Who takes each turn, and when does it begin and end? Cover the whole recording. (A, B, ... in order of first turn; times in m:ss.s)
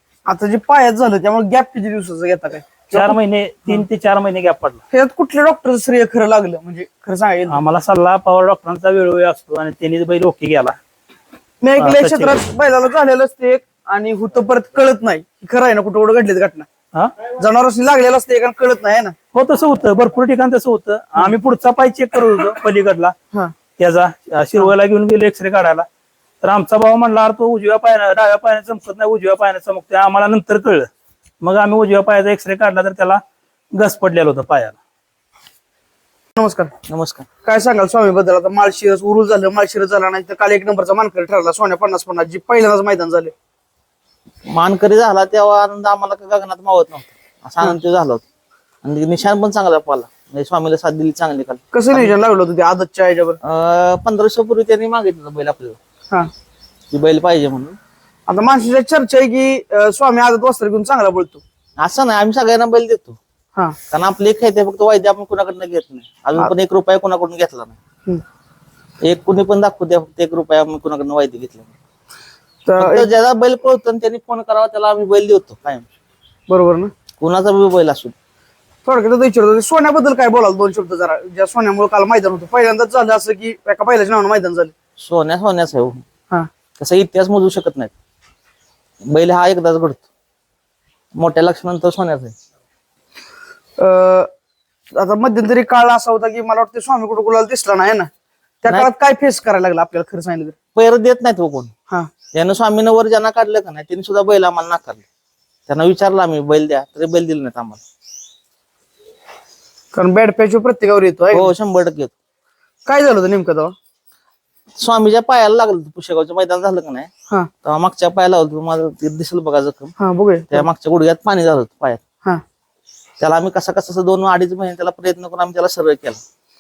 0:00.3-0:03.2 A
0:02.9-0:04.8 B
0:04.9-0:07.6 A
0:07.5-0:10.8 B
0:11.6-0:16.7 A
0:11.8-0:12.4 B
0:17.3-0:19.2 A
0:19.3-0:23.2 B
0:23.8-0:25.9 B
0:26.4-0:30.9 B
0:31.4-0:33.2 B
0:33.7-0:34.8 B
0:36.4-0:36.7 A
0:36.9-0:37.3 C
0:37.4-0:43.3 A
0:44.5-0:48.2 C
0:48.8-0:52.1 C
0:51.7-0:53.4 A
0:53.4-0:55.8 C
0:56.9-0:57.8 C
0:58.3-1:01.4 A
1:01.8-1:03.2 C
1:03.9-1:07.8 C
1:09.0-1:11.7 C
1:12.6-1:13.1 A
1:12.8-1:15.9 C
1:16.5-1:16.9 A
1:17.2-1:18.1 C
1:18.8-1:24.7 A
1:25.0-1:26.0 C
1:26.8-1:27.9 C
1:29.0-1:30.1 C
1:31.2-1:32.3 C
1:33.8-1:34.3 A
1:34.9-1:38.1 A
1:38.6-1:40.6 A
1:40.8-1:41.7 C
1:42.3-1:45.0 C
1:45.7-1:47.8 C
1:49.9-1:51.6 A
1:51.3-1:52.1 C
1:52.9-1:53.7 A
1:54.8-1:57.1 C
1:57.6-1:59.9 C
2:00.0-2:00.7 A
2:00.5-2:02.0 C
2:03.2-2:06.2 C